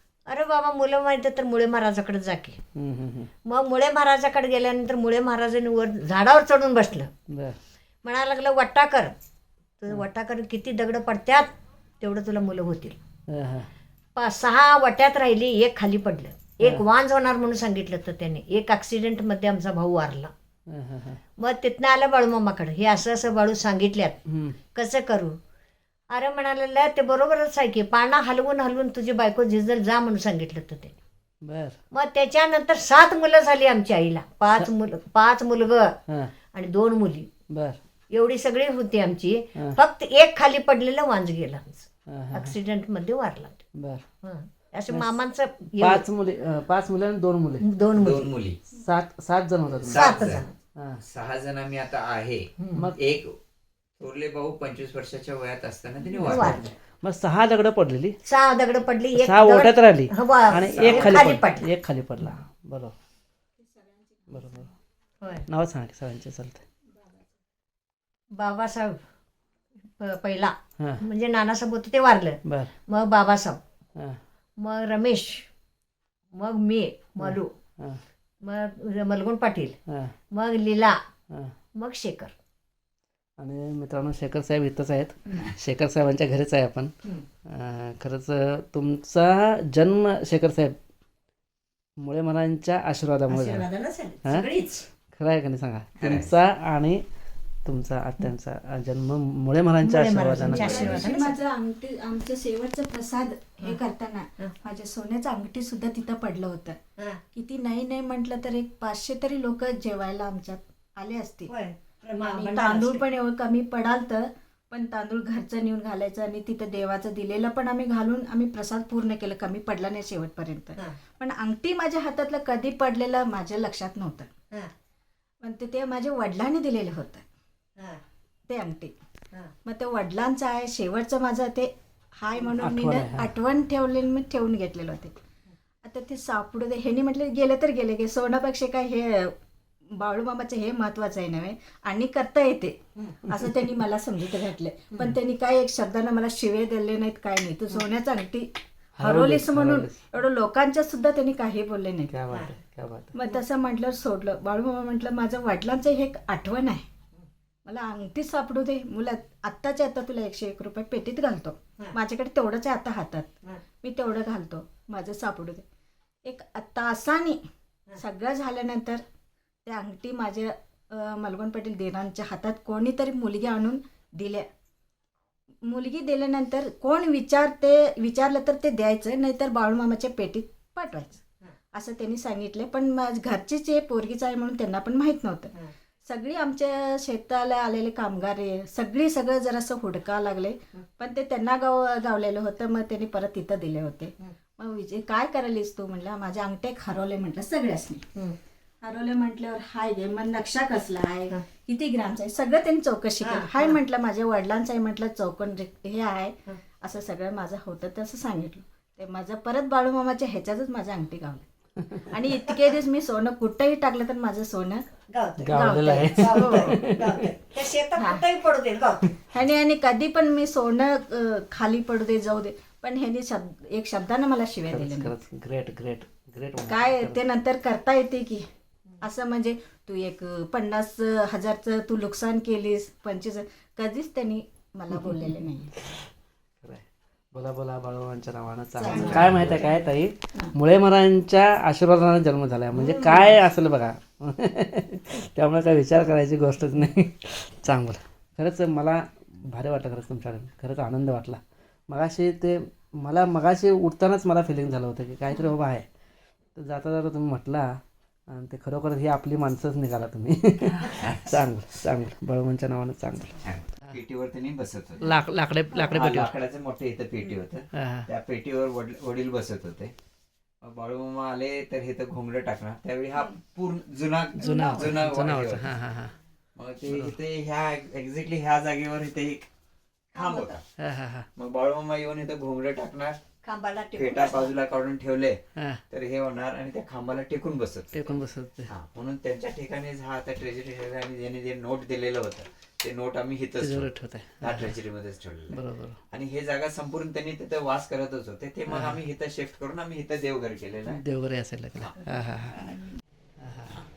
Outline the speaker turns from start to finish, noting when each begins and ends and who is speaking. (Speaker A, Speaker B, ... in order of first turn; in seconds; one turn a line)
Speaker A: 0.3-2.6
Speaker B: 2.8-3.3
Speaker A: 3.5-7.1
Speaker B: 7.3-7.6
Speaker A: 8.0-9.1
Speaker A: 9.8-13.0
Speaker B: 13.3-13.7
Speaker A: 14.2-20.3
Speaker B: 20.7-21.2
Speaker A: 21.4-24.2
Speaker B: 24.3-24.6
Speaker A: 24.8-25.4
Speaker A: 26.1-31.0
Speaker B: 31.4-31.8
Speaker A: 31.9-36.0
Speaker B: 36.1-36.3
Speaker A: 36.5-37.3
Speaker B: 37.5-37.8
Speaker A: 38.1-43.6
Speaker B: 42.1-42.6
Speaker B: 43.8-44.0
Speaker A: 44.2-46.0
Speaker B: 45.8-47.7
Speaker A: 47.6-48.3
Speaker C: 48.0-48.6
Speaker B: 48.8-50.2
Speaker C: 49.9-50.4
Speaker A: 49.9-50.5
Speaker B: 50.8-51.0
Speaker C: 51.1-53.4
Speaker A: 52.6-52.9
Speaker B: 52.7-53.0
Speaker C: 54.0-56.7
Speaker B: 56.2-58.2
Speaker A: 56.2-56.6
Speaker A: 58.3-61.7
Speaker B: 59.1-63.0
Speaker C: 60.6-61.2
Speaker B: 64.3-64.7
Speaker B: 65.5-66.6
Speaker A: 68.3-69.0
Speaker A: 70.0-73.6
Speaker B: 72.5-72.7
Speaker A: 74.6-75.5
Speaker A: 76.3-77.5
Speaker B: 77.2-78.0
Speaker A: 78.4-79.8
Speaker B: 79.9-80.2
Speaker A: 80.3-81.0
Speaker A: 81.8-82.3
Speaker B: 83.4-86.9
Speaker B: 87.5-90.8
Speaker B: 92.0-93.7
Speaker A: 93.3-94.8
Speaker B: 95.1-97.0
Speaker C: 96.0-96.3
Speaker B: 97.7-101.0
Speaker A: 99.8-101.4
Speaker D: 100.4-106.8
Speaker D: 107.3-111.5
Speaker A: 111.5-113.0
Speaker D: 112.3-124.3
Speaker D: 125.4-127.2
Speaker D: 128.5-128.9
Speaker D: 129.7-135.2
Speaker B: 132.6-133.3
Speaker D: 135.8-139.3
Speaker D: 139.9-152.1
Speaker B: 149.0-150.0
Speaker B: 152.1-153.2
Speaker D: 153.2-156.8
Speaker D: 157.7-165.7
Speaker D: 166.3-167.4
Speaker D: 168.0-169.0
Speaker D: 169.7-174.5
Speaker D: 175.6-181.2
Speaker D: 181.7-185.5
Speaker D: 186.1-198.1
Speaker D: 198.8-211.4
Speaker A: 203.2-203.8
Speaker B: 211.8-212.1
Speaker D: 212.0-214.8
Speaker A: 215.1-219.2
Speaker B: 215.4-217.3
Speaker D: 215.5-216.8
Speaker D: 219.3-225.1
Speaker B: 224.7-227.2
Speaker D: 226.7-228.5
Speaker D: 229.0-235.7
Speaker B: 234.9-235.2
Speaker B: 235.8-236.1
Speaker B: 236.6-255.9
Speaker D: 238.8-239.2
Speaker C: 238.9-239.6
Speaker A: 242.8-243.3
Speaker B: 256.6-263.4
Speaker C: 260.9-261.3
Speaker C: 263.4-265.1
Speaker B: 265.0-266.3
Speaker C: 265.9-269.9
Speaker B: 267.7-268.1
Speaker C: 270.6-275.7
Speaker B: 274.4-276.2
Speaker C: 276.6-279.5
Speaker B: 276.9-277.2
Speaker C: 280.1-280.6
Speaker A: 280.1-280.6
Speaker B: 280.8-281.3
Speaker C: 281.4-283.2
Speaker A: 283.4-284.5
Speaker C: 284.0-288.0
Speaker B: 285.6-285.8
Speaker B: 287.9-288.7
Speaker C: 288.7-293.9
Speaker B: 293.6-294.7
Speaker C: 294.4-301.0
Speaker B: 295.5-296.0
Speaker B: 298.7-299.0
Speaker B: 300.9-302.7
Speaker B: 303.4-303.8